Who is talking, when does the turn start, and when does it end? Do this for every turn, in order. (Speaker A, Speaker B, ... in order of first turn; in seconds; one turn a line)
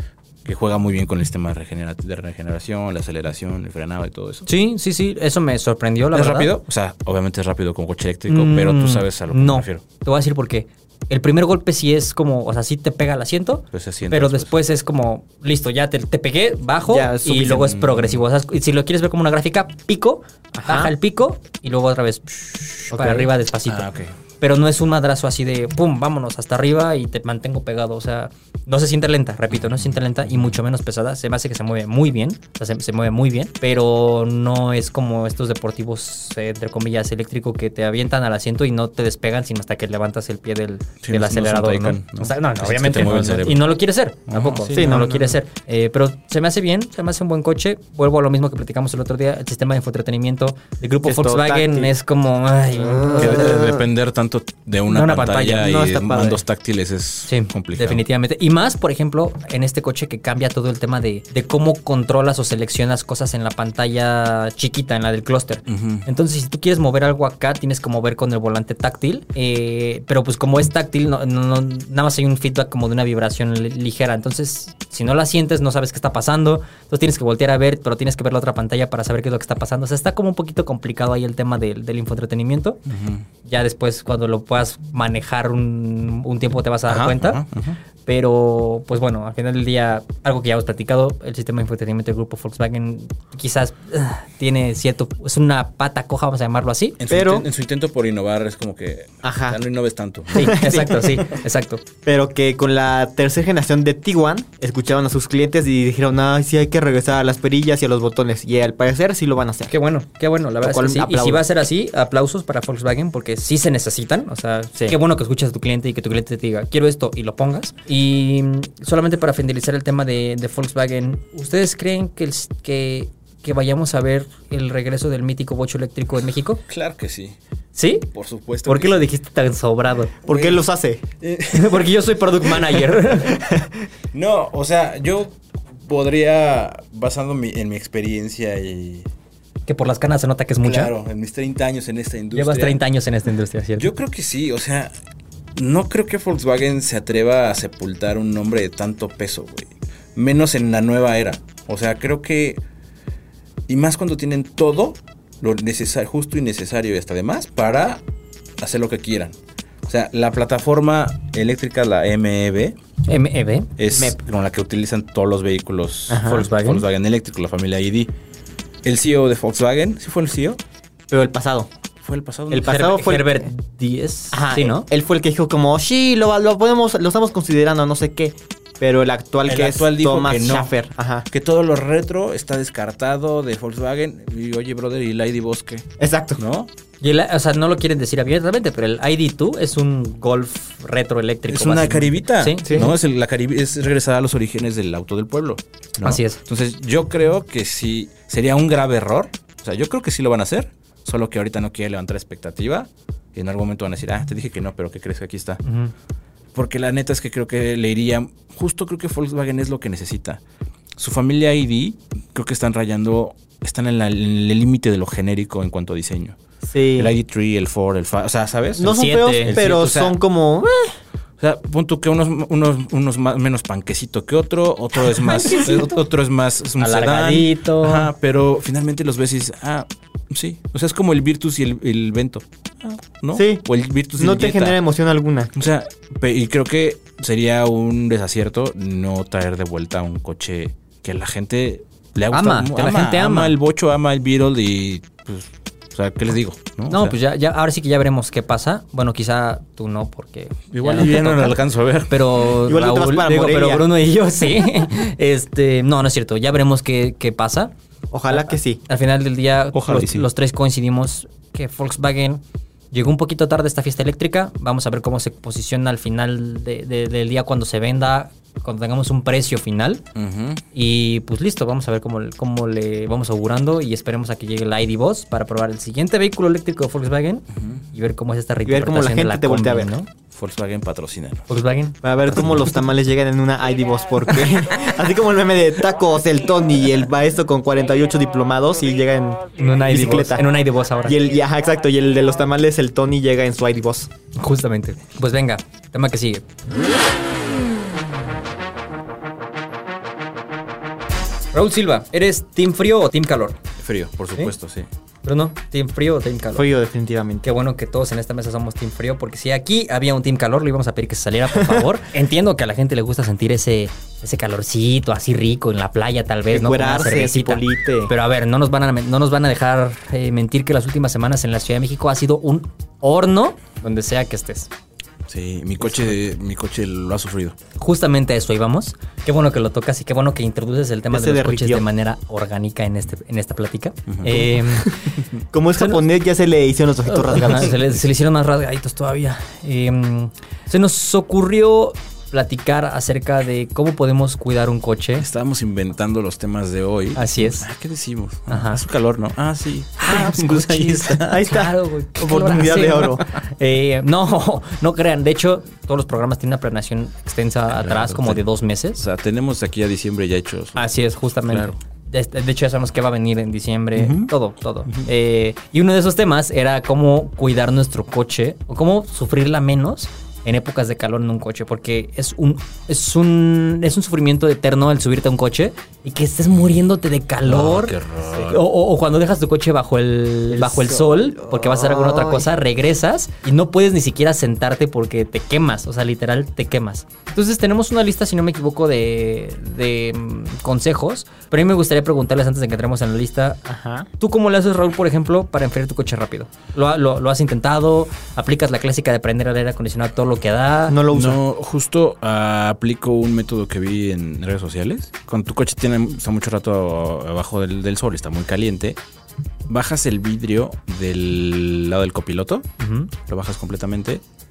Speaker A: 0.4-4.5
Speaker B: 4.5-6.5
Speaker A: 6.1-9.8
Speaker B: 8.3-23.9
Speaker A: 13.7-14.5
Speaker C: 16.9-17.7
Speaker A: 17.5-18.2
Speaker C: 20.6-20.9
Speaker C: 22.9-23.3
Speaker A: 23.6-24.1
Speaker B: 24.4-53.6
Speaker A: 29.5-30.6
Speaker A: 41.0-43.7
Speaker A: 44.3-45.3
Speaker C: 44.7-45.3
Speaker C: 51.0-51.9
Speaker C: 52.9-53.8
Speaker A: 53.2-58.0
Speaker B: 54.9-55.8
Speaker C: 55.6-56.4
Speaker B: 57.3-82.8
Speaker A: 65.7-66.1
Speaker A: 82.9-83.2
Speaker B: 83.4-87.4
Speaker A: 86.9-87.8
Speaker B: 88.0-97.0
Speaker A: 97.0-100.8
Speaker C: 97.1-97.5
Speaker C: 99.2-99.6
Speaker C: 100.3-101.2
Speaker B: 100.3-101.8
Speaker C: 102.0-109.7
Speaker B: 109.7-126.6
Speaker C: 110.6-111.4
Speaker A: 126.7-127.3
Speaker B: 127.7-128.1
Speaker A: 128.1-129.1
Speaker B: 128.7-130.1
Speaker C: 130.2-131.0
Speaker A: 130.3-130.6
Speaker A: 131.2-132.8
Speaker B: 131.5-133.4
Speaker A: 134.1-139.1
Speaker B: 139.7-140.9
Speaker A: 140.6-142.8
Speaker B: 142.3-143.9
Speaker A: 143.8-144.9
Speaker A: 145.6-152.6
Speaker A: 153.7-158.0
Speaker A: 158.6-159.3
Speaker A: 159.8-162.8
Speaker B: 163.1-163.7
Speaker A: 163.8-168.1
Speaker C: 166.1-166.4
Speaker B: 166.2-166.8
Speaker A: 168.8-170.6
Speaker C: 171.1-171.7
Speaker A: 172.0-172.8
Speaker C: 172.5-173.5
Speaker B: 172.5-174.9
Speaker C: 174.3-181.3
Speaker A: 179.4-180.7
Speaker A: 181.3-186.7
Speaker C: 186.0-186.4
Speaker B: 187.0-192.8
Speaker A: 191.5-205.6
Speaker C: 192.7-192.9
Speaker B: 196.0-196.4
Speaker B: 205.6-205.9
Speaker A: 206.5-210.4
Speaker A: 211.0-216.4
Speaker C: 216.7-217.1
Speaker A: 216.9-220.2
Speaker C: 218.8-220.9
Speaker B: 218.8-219.6
Speaker A: 221.4-234.8
Speaker B: 225.3-226.0
Speaker C: 225.4-225.7
Speaker B: 226.8-228.1
Speaker C: 233.3-233.6
Speaker C: 234.2-235.5
Speaker A: 235.5-247.2
Speaker B: 242.3-243.5
Speaker B: 246.9-251.6
Speaker A: 250.7-252.5
Speaker B: 252.1-257.7
Speaker C: 252.6-253.9
Speaker C: 258.1-258.8
Speaker B: 258.3-270.0
Speaker A: 259.7-260.3
Speaker A: 270.1-270.6
Speaker B: 270.7-280.1
Speaker A: 277.6-277.8
Speaker C: 278.6-279.9
Speaker A: 280.3-281.5
Speaker B: 281.5-282.0
Speaker C: 282.0-290.5
Speaker B: 289.6-291.2
Speaker C: 291.0-294.1
Speaker B: 294.4-296.4
Speaker B: 301.5-303.6
Speaker A: 303.8-304.9
Speaker B: 305.2-306.6
Speaker C: 306.5-307.5
Speaker B: 307.4-324.7
Speaker C: 311.5-311.9
Speaker C: 316.5-318.1
Speaker A: 325.3-327.5
Speaker B: 327.8-335.0
Speaker C: 331.1-331.8
Speaker A: 334.1-334.4
Speaker C: 334.3-335.0
Speaker C: 335.5-337.7
Speaker B: 337.1-345.2
Speaker A: 345.2-351.4
Speaker B: 347.1-347.6
Speaker B: 348.5-348.8
Speaker B: 350.0-359.0
Speaker C: 351.2-353.2
Speaker A: 357.7-358.4
Speaker A: 359.0-360.8
Speaker B: 360.7-393.6
Speaker A: 361.5-361.7
Speaker A: 363.9-364.3
Speaker A: 377.4-378.6
Speaker C: 381.3-382.5
Speaker C: 393.6-394.1
Speaker B: 394.2-401.0
Speaker C: 400.9-401.4
Speaker A: 401.1-409.0
Speaker A: 409.7-412.7
Speaker B: 412.8-413.1
Speaker A: 413.2-414.2